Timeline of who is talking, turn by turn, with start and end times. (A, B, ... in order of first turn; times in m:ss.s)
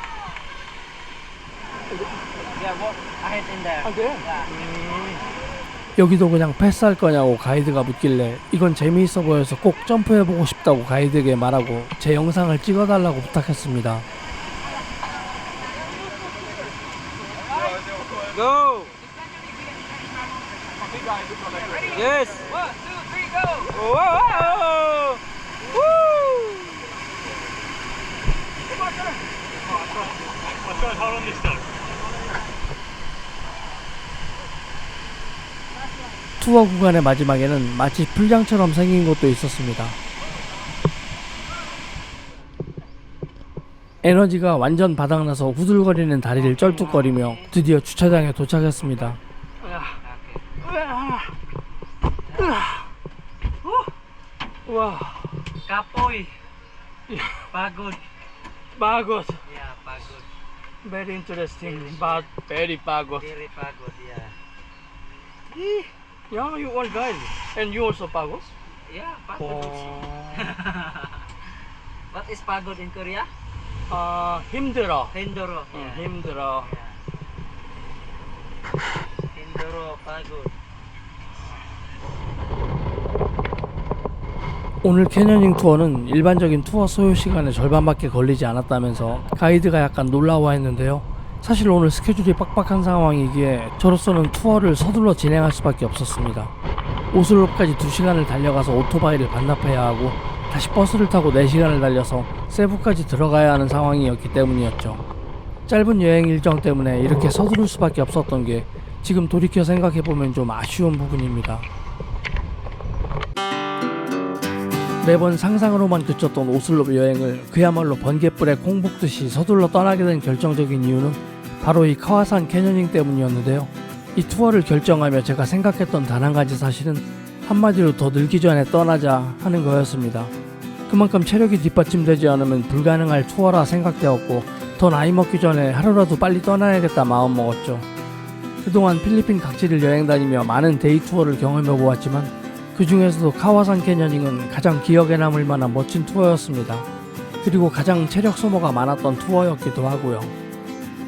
0:02.6-0:04.5 A
0:03.8-0:05.2 B
0:06.0-0:14.1 C
0:18.2-0:19.0 A
0:21.8-0:25.2 A
0:26.2-0:26.5 A
0:30.7-0:31.6 B
0:36.4-0:40.0 C
0:44.0-0:49.2 C
0:46.9-0:47.4 A
0:49.6-0:50.0 B
0:50.0-0:50.4 A
0:50.6-0:51.3 B
0:52.4-0:52.9 B
0:54.7-0:55.4 B
0:55.7-0:56.4 A
0:57.1-0:57.4 B
0:57.5-0:58.0 A
0:58.8-0:59.4 B
0:59.5-1:00.3 A
1:00.8-1:03.3 B
1:01.6-1:02.2 A
1:03.1-1:04.4 A
1:05.7-1:08.5 B
1:08.9-1:11.2 A
1:09.5-1:10.3 B
1:12.1-1:13.3 A
1:13.9-1:15.2 B
1:15.1-1:17.0 A
1:15.7-1:16.7 B
1:19.3-1:20.5 A
1:24.8-1:36.5 C
1:37.1-1:45.0 C
1:45.7-1:51.7 C
1:55.0-2:10.3 C
2:10.9-2:17.9 C
2:18.6-2:26.9 C
2:27.4-2:30.3 C